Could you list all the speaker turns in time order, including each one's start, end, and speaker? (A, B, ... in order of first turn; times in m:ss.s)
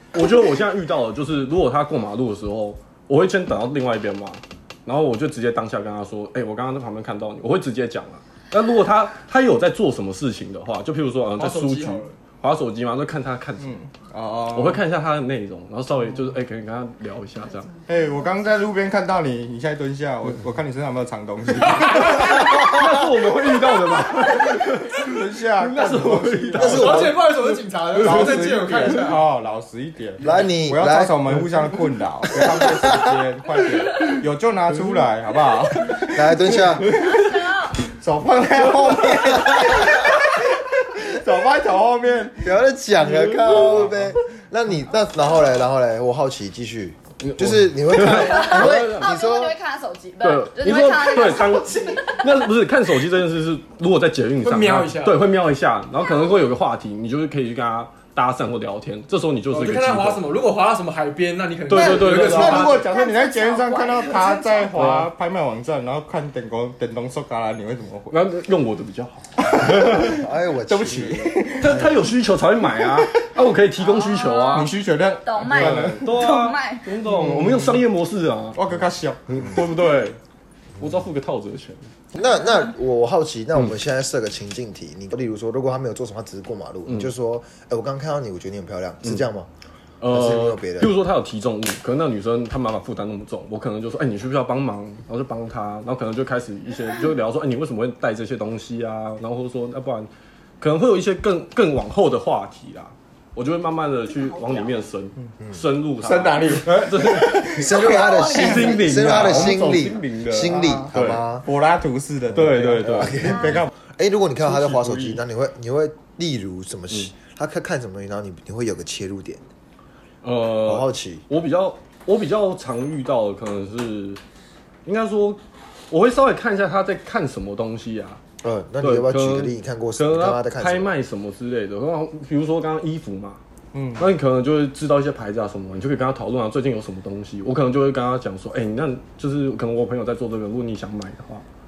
0:00.1-0:13.7 A
0:11.4-0:12.2 B
0:13.6-0:14.8 C
0:14.5-0:17.7 A
0:17.9-0:22.7 C
0:21.7-0:27.2 A
0:24.9-0:27.1 C
0:26.6-0:27.1 D
0:26.6-0:29.2 B
0:28.0-0:42.5 C
0:28.0-0:28.9 A
0:30.2-0:31.4 D
0:32.4-0:33.0 D
0:36.1-0:36.9 D
0:36.9-0:37.8 E
0:42.4-0:49.5 D
0:43.1-0:44.2 C
0:43.5-0:43.8 A
0:47.2-0:49.1 A
0:48.2-0:52.3 E
0:50.2-1:00.2 A
0:54.4-0:55.2 B
0:56.0-0:56.4 E
0:59.5-1:02.9 B
1:01.7-1:02.8 A
1:01.7-1:08.2 C
1:02.4-1:04.8 E
1:04.7-1:05.1 A
1:08.1-1:10.1 A
1:09.5-1:11.9 C
1:09.8-1:12.0 D
1:11.6-1:14.7 A
1:12.8-1:13.3 C
1:13.8-1:16.9 E
1:14.5-1:16.5 C
1:15.5-1:18.6 A
1:17.0-1:17.8 C
1:18.5-1:19.4 C
1:19.3-1:20.2 A
1:20.8-1:21.9 A
1:22.1-1:29.5 D
1:30.0-1:40.1 A
1:30.1-1:30.9 D
1:40.6-1:51.2 A
1:44.1-1:44.8 E
1:46.0-1:47.7 C
1:47.5-1:51.4 D
1:47.7-1:49.1 E
1:50.4-1:53.7 C
1:52.4-1:53.3 A
1:52.8-1:59.4 D
1:53.2-1:53.5 E
1:54.4-1:55.2 C
2:00.2-2:04.2 A
2:00.6-2:01.2 D
2:04.8-2:05.4 A
2:05.9-2:08.2 A
2:08.4-2:10.9 D
2:08.8-2:13.4 A
2:13.7-2:14.1 C
2:14.0-2:21.4 A